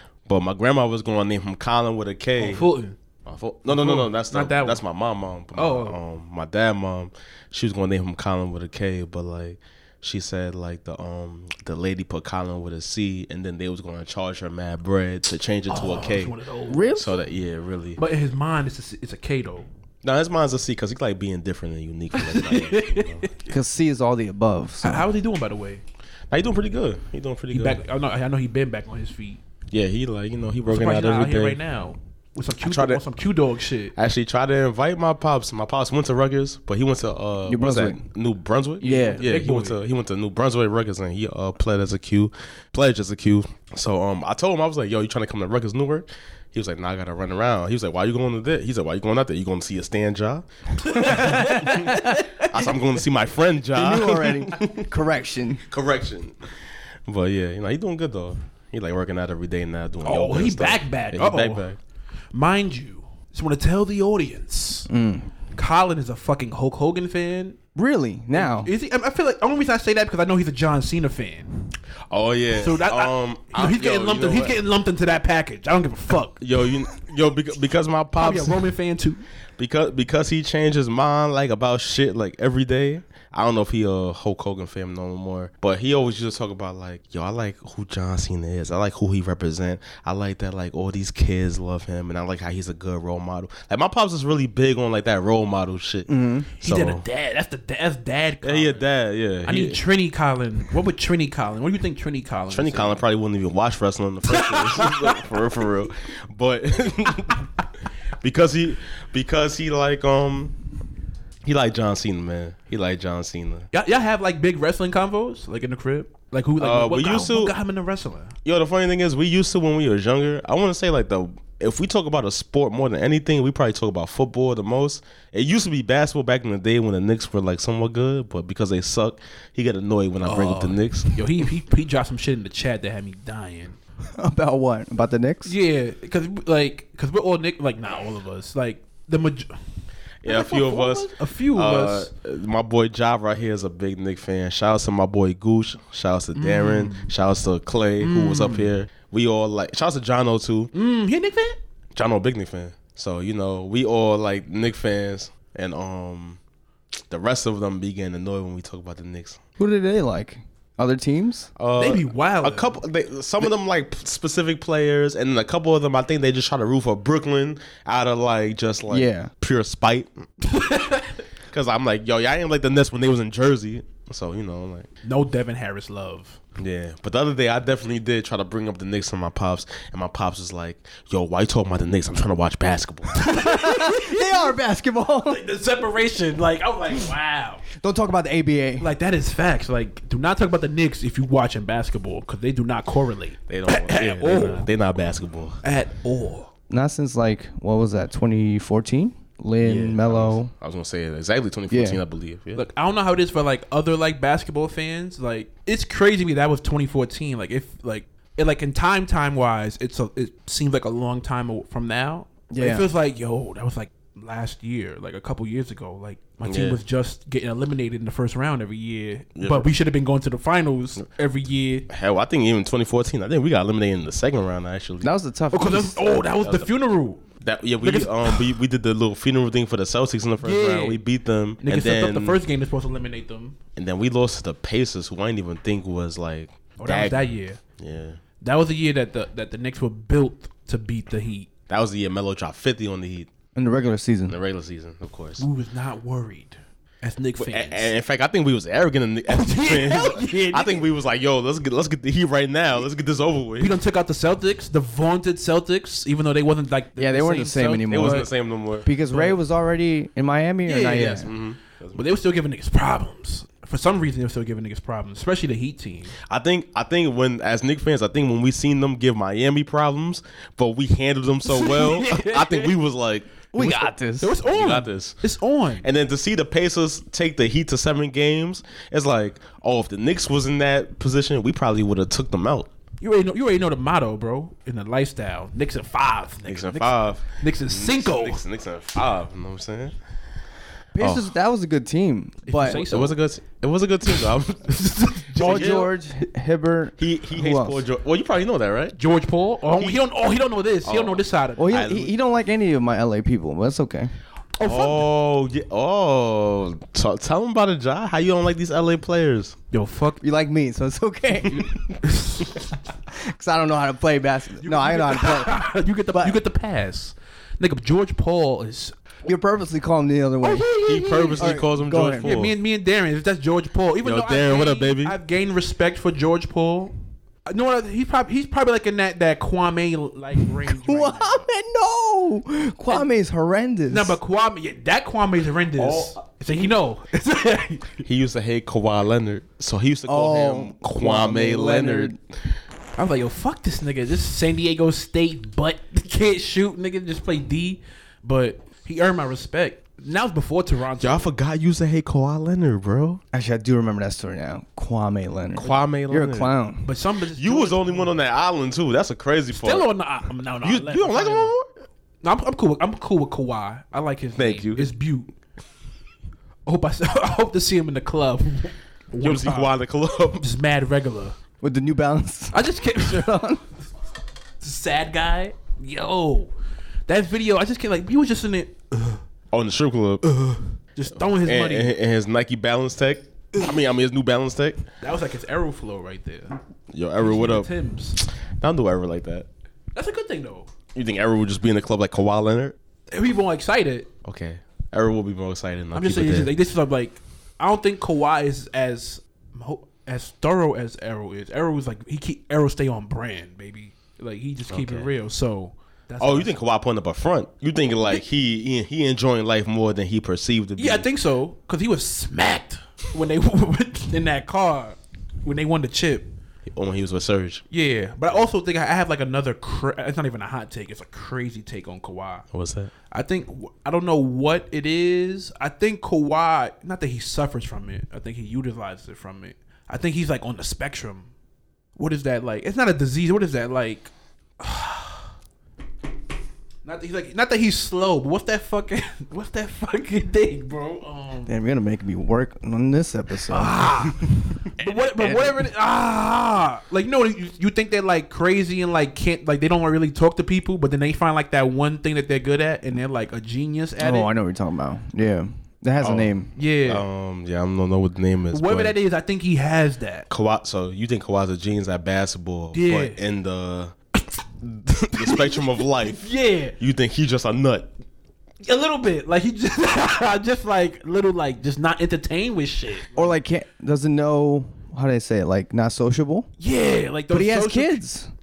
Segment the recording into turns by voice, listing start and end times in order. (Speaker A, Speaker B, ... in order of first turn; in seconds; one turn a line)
Speaker A: 0.2-2.7
Speaker B: 2.4-3.0
Speaker A: 3.2-16.3
Speaker B: 3.7-4.8
Speaker B: 5.5-6.0
Speaker B: 15.7-16.9
Speaker C: 16.7-17.2
Speaker A: 16.9-18.0
Speaker B: 18.0-19.7
Speaker A: 20.0-23.3
Speaker B: 22.2-23.3
Speaker C: 23.5-25.0
Speaker B: 24.8-25.8
Speaker A: 26.3-27.8
Speaker B: 27.5-29.4
Speaker A: 29.7-31.6
Speaker B: 30.7-33.9
Speaker A: 32.6-33.0
Speaker A: 33.9-54.9
Speaker C: 37.5-38.0
Speaker B: 38.8-39.8
Speaker C: 38.8-39.2
Speaker B: 50.9-52.7
Speaker C: 51.1-52.0
Speaker C: 53.7-55.6
Speaker A: 55.6-56.5
Speaker A: 57.1-61.8
Speaker B: 60.0-61.6
Speaker B: 62.3-64.9
Speaker C: 64.9-65.3
Speaker B: 65.5-67.6
Speaker C: 67.7-68.7
Speaker B: 68.3-71.7
Speaker A: 72.1-74.5
Speaker B: 72.5-76.4
Speaker A: 76.4-78.6
Speaker B: 78.2-79.2
Speaker A: 79.6-97.0
Speaker C: 96.1-96.5
Speaker B: 96.6-98.8
Speaker A: 98.4-99.8
Speaker B: 99.4-103.0
Speaker A: 102.5-107.5
Speaker B: 104.3-105.2
Speaker A: 108.2-110.5
Speaker A: 111.4-113.7
Speaker B: 113.7-118.3
Speaker A: 116.6-117.5
Speaker A: 118.4-131.2
Speaker B: 130.2-133.8
Speaker C: 134.1-135.5
Speaker B: 135.4-142.1
Speaker A: 140.2-150.7
Speaker B: 146.3-147.1
Speaker B: 148.0-148.7
Speaker B: 150.7-151.6
Speaker A: 151.9-156.4
Speaker A: 157.1-159.4
Speaker C: 159.6-161.5
Speaker A: 161.6-170.3
Speaker B: 161.8-162.8
Speaker C: 168.9-169.3
Speaker B: 170.4-171.2
Speaker A: 171.5-174.9
Speaker B: 175.0-176.4
Speaker A: 176.6-183.2
Speaker C: 183.1-185.4
Speaker B: 183.2-184.5
Speaker B: 185.2-187.7
Speaker C: 187.8-188.9
Speaker B: 188.8-194.7
Speaker A: 193.5-195.6
Speaker B: 195.6-196.5
Speaker C: 196.7-200.5
Speaker A: 199.6-202.6
Speaker C: 201.7-202.0
Speaker B: 202.6-221.9
Speaker C: 212.5-212.9
Speaker A: 216.4-216.8
Speaker A: 219.3-219.7
Speaker A: 221.9-225.1
Speaker C: 225.0-226.1
Speaker B: 225.5-227.3
Speaker A: 226.4-226.7
Speaker A: 227.4-232.4
Speaker B: 227.8-228.5
Speaker B: 230.4-231.0
Speaker B: 231.6-233.6
Speaker A: 233.8-238.2
Speaker B: 236.8-237.6
Speaker B: 238.4-241.5
Speaker A: 241.7-243.3
Speaker C: 243.5-244.4
Speaker A: 244.3-245.4
Speaker B: 245.4-247.9
Speaker A: 247.4-253.7
Speaker B: 249.3-250.8
Speaker B: 253.6-258.3
Speaker C: 257.0-258.3
Speaker A: 257.9-258.9
Speaker C: 258.8-261.3
Speaker B: 259.0-259.4
Speaker B: 260.6-261.3
Speaker A: 261.0-262.0
Speaker B: 261.9-266.1
Speaker A: 266.2-273.3
Speaker B: 271.4-272.7
Speaker B: 273.5-275.9
Speaker C: 273.5-274.3
Speaker A: 274.5-275.2
Speaker A: 275.8-282.7
Speaker B: 283.0-288.4
Speaker A: 286.4-289.9
Speaker C: 290.9-292.8
Speaker A: 291.0-291.3
Speaker B: 292.4-293.2
Speaker A: 292.7-294.7
Speaker B: 294.1-295.9
Speaker C: 295.4-297.8
Speaker A: 295.4-295.8
Speaker A: 297.0-298.9
Speaker B: 299.0-301.9
Speaker A: 300.8-302.1
Speaker C: 301.6-304.1
Speaker B: 304.6-305.1
Speaker A: 304.6-309.6
Speaker B: 309.7-310.2
Speaker C: 310.2-311.8
Speaker B: 312.0-312.5
Speaker C: 313.1-315.6
Speaker B: 314.6-318.9
Speaker C: 316.1-316.4
Speaker C: 319.2-320.8
Speaker B: 320.4-321.6
Speaker A: 320.8-322.5
Speaker C: 321.3-322.4
Speaker B: 322.1-326.9
Speaker A: 324.0-325.1
Speaker B: 327.5-331.4
Speaker C: 330.6-334.2
Speaker B: 333.9-338.0
Speaker A: 335.8-336.2
Speaker A: 338.0-342.1
Speaker C: 340.1-342.1
Speaker B: 342.9-351.3
Speaker A: 351.0-353.2
Speaker C: 353.3-356.9
Speaker A: 355.6-356.5
Speaker B: 356.8-358.1
Speaker A: 357.4-359.8
Speaker B: 359.5-361.5
Speaker A: 360.6-361.6
Speaker B: 362.2-365.3
Speaker A: 364.4-364.9
Speaker B: 366.6-369.7
Speaker A: 369.2-370.4
Speaker B: 370.4-371.4
Speaker C: 371.6-373.6
Speaker B: 372.5-373.5
Speaker B: 374.6-376.5
Speaker B: 377.1-379.2
Speaker A: 379.5-380.3
Speaker B: 380.2-381.9
Speaker A: 381.1-384.8
Speaker B: 385.0-386.6
Speaker A: 386.9-389.5
Speaker B: 387.2-388.2
Speaker B: 389.9-390.7
Speaker A: 390.9-392.8
Speaker B: 393.1-394.1
Speaker A: 394.2-396.5
Speaker B: 395.9-406.6
Speaker A: 404.7-405.1
Speaker A: 406.2-411.1
Speaker B: 410.8-416.3
Speaker A: 416.7-417.6
Speaker B: 417.7-422.5
Speaker A: 422.5-422.9
Speaker B: 423.1-431.3
Speaker B: 431.9-435.3
Speaker B: 436.8-441.5
Speaker C: 441.4-445.6
Speaker B: 443.5-454.3
Speaker C: 454.0-456.5
Speaker A: 456.0-458.9
Speaker B: 456.6-457.0
Speaker B: 458.5-460.3
Speaker A: 460.3-463.9
Speaker B: 462.7-463.2
Speaker A: 464.6-467.9
Speaker B: 465.2-466.8
Speaker B: 468.6-473.1
Speaker C: 473.1-476.5
Speaker B: 476.6-478.0
Speaker C: 477.3-478.3